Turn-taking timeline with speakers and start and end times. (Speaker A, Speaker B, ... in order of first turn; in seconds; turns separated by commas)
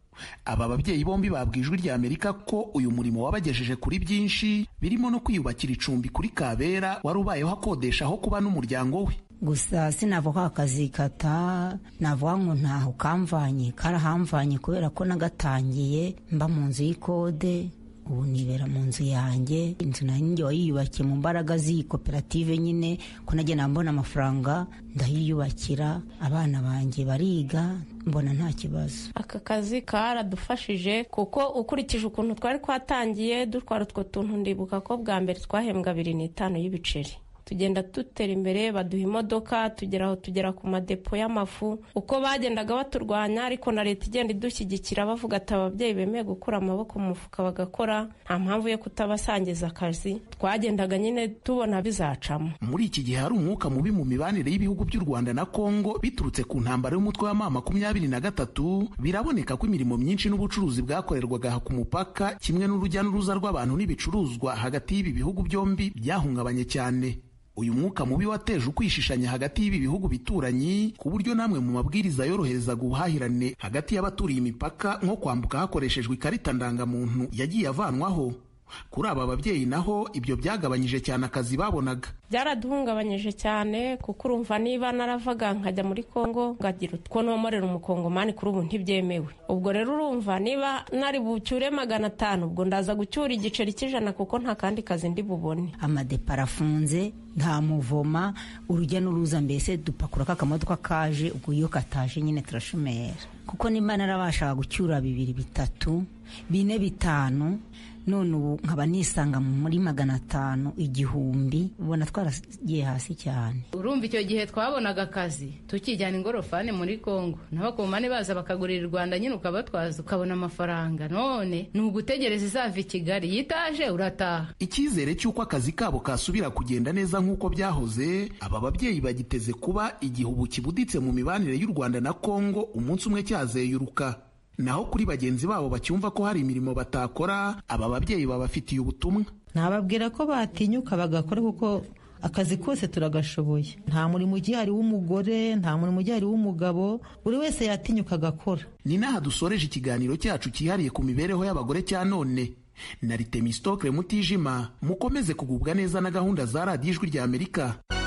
Speaker A: 0.5-9.2, Speaker B: 9.4-29.1, Speaker C: 29.1-52.5, Speaker A: 52.6-82.1, Speaker C: 82.3-95.7, Speaker B: 95.8-113.6, Speaker D: 113.8-124.5, Speaker A: 124.6-139.3, Speaker E: 139.5-148.7, Speaker A: 148.8-157.8